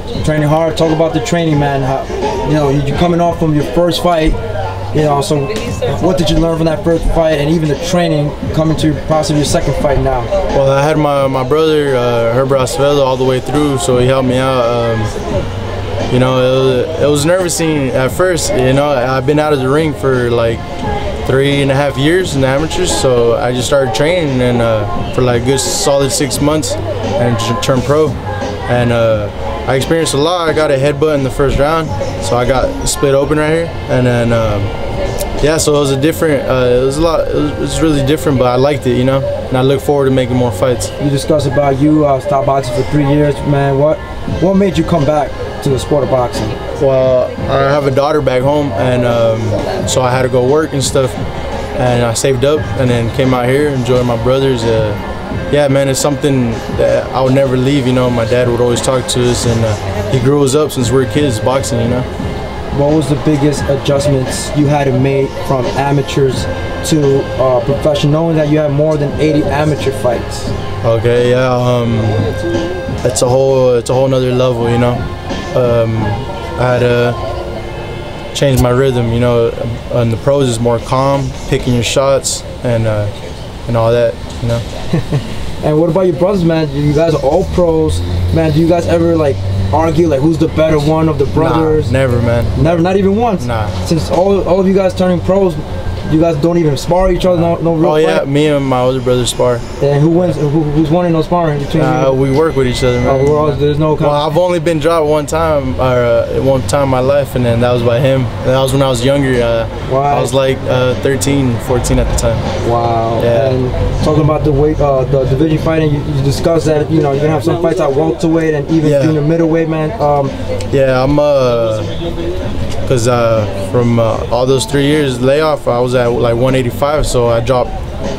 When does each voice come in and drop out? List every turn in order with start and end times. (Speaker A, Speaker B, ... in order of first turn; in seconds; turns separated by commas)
Speaker A: 0.2-4.4, Speaker A: 4.9-10.3, Speaker B: 10.5-15.1, Speaker B: 16.1-20.6, Speaker B: 21.2-34.7, Speaker B: 35.4-40.9, Speaker A: 41.0-46.6, Speaker B: 46.8-51.2, Speaker B: 51.8-62.1, Speaker A: 62.7-70.5, Speaker B: 70.8-72.3, Speaker B: 73.0-75.0, Speaker B: 75.5-77.2, Speaker B: 78.3-83.1, Speaker B: 83.7-84.6, Speaker A: 84.9-92.0, Speaker B: 91.4-92.6, Speaker A: 92.5-98.3, Speaker B: 93.4-93.8, Speaker B: 97.8-99.6, Speaker A: 99.8-102.2, Speaker B: 101.8-112.4, Speaker A: 103.0-104.3, Speaker A: 109.9-110.3, Speaker A: 112.6-120.3, Speaker B: 113.2-113.6, Speaker B: 118.8-119.2, Speaker B: 120.7-121.9, Speaker B: 122.9-127.7